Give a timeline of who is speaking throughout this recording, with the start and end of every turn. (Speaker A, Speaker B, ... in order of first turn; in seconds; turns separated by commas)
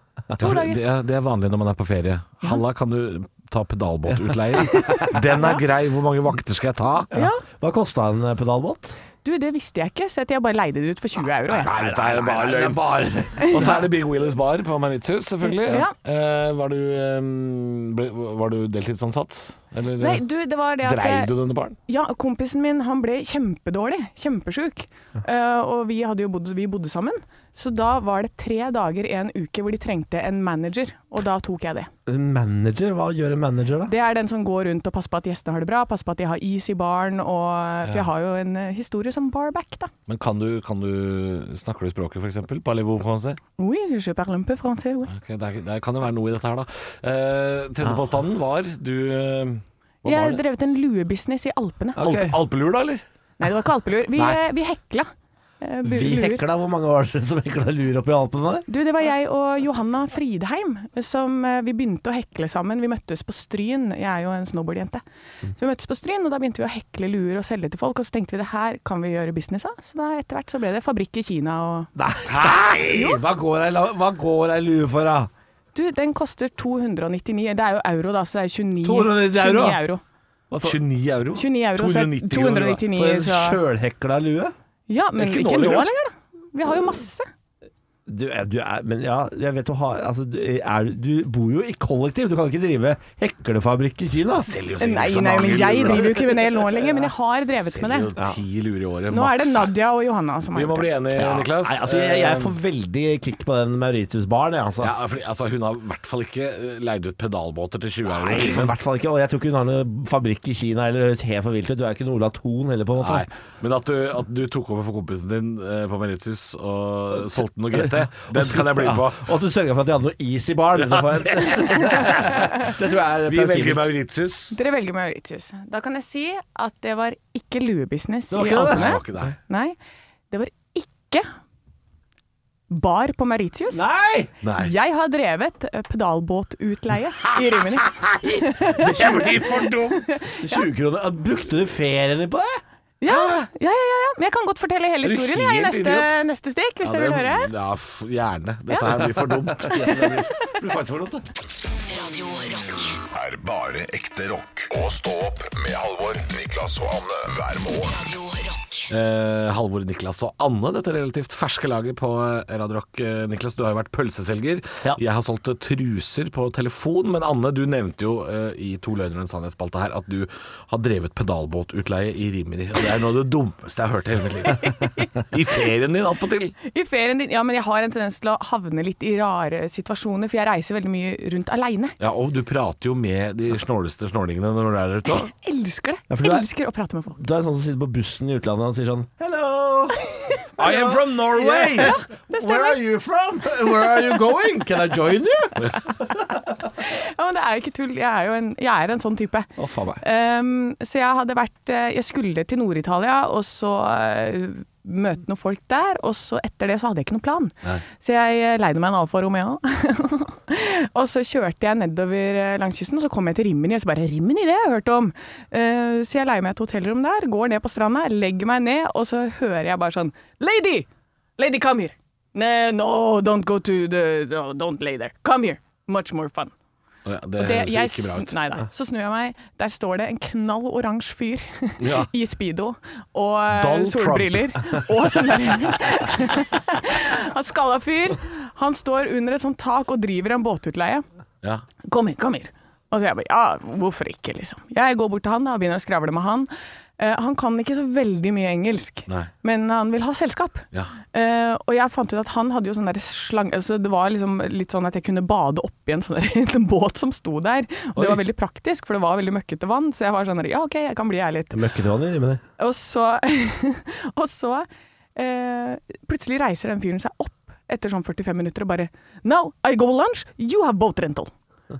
Speaker A: 0.4-7.1, Speaker B: 0.4-0.8, Speaker B: 4.7-5.6, Speaker B: 7.1-7.4, Speaker C: 7.1-8.9, Speaker B: 9.2-11.7, Speaker A: 11.5-20.2, Speaker C: 11.7-13.8, Speaker B: 15.4-15.9, Speaker B: 20.0-21.3, Speaker A: 20.8-21.8, Speaker B: 21.9-31.9, Speaker C: 32.1-33.9, Speaker B: 33.9-39.9, Speaker A: 40.1-43.4, Speaker B: 43.6-45.1, Speaker A: 45.1-50.4, Speaker B: 50.0-52.0, Speaker C: 52.0-52.4, Speaker A: 52.0-53.0, Speaker B: 53.4-55.1, Speaker B: 55.6-56.4, Speaker C: 55.8-58.7, Speaker B: 58.7-65.0, Speaker B: 65.6-71.9, Speaker C: 72.0-75.3, Speaker A: 72.3-72.8, Speaker B: 75.7-80.0, Speaker C: 78.8-79.8, Speaker C: 80.5-80.8, Speaker A: 80.6-82.8, Speaker B: 81.4-83.6, Speaker C: 82.8-84.5, Speaker B: 84.9-87.3, Speaker A: 85.2-85.9, Speaker C: 88.1-94.5, Speaker A: 94.3-96.8, Speaker B: 94.8-98.1, Speaker A: 97.6-99.7, Speaker B: 99.1-100.9, Speaker A: 100.5-102.5, Speaker C: 101.1-104.9, Speaker A: 104.8-108.7, Speaker C: 108.1-113.2, Speaker A: 113.0-119.3, Speaker C: 117.7-123.9, Speaker A: 120.8-122.5, Speaker A: 123.3-124.5, Speaker B: 124.5-129.8, Speaker C: 128.3-129.0, Speaker A: 128.5-129.3, Speaker B: 130.3-131.3, Speaker B: 132.7-133.8, Speaker C: 133.7-134.3, Speaker A: 134.4-134.7, Speaker B: 134.6-140.6, Speaker A: 137.8-140.1, Speaker C: 138.8-139.3, Speaker C: 140.4-142.6, Speaker B: 143.0-147.5, Speaker A: 143.1-143.4, Speaker A: 145.0-146.2, Speaker A: 146.8-150.1, Speaker C: 148.8-151.2, Speaker D: 151.7-153.0, Speaker E: 153.1-158.0, Speaker D: 157.9-158.9, Speaker A: 158.9-176.5, Speaker B: 176.6-181.9, Speaker A: 182.0-185.3, Speaker B: 185.2-187.2, Speaker C: 186.1-186.4, Speaker C: 187.2-190.0, Speaker A: 190.6-191.9, Speaker C: 190.6-196.2, Speaker B: 191.7-192.8, Speaker B: 196.8-199.5, Speaker C: 199.6-200.0, Speaker B: 200.0-220.9, Speaker B: 221.4-226.5, Speaker A: 227.0-228.3, Speaker B: 227.4-241.0, Speaker A: 231.8-232.1, Speaker A: 233.5-234.8, Speaker B: 241.8-261.6, Speaker C: 261.5-262.4, Speaker B: 262.6-271.3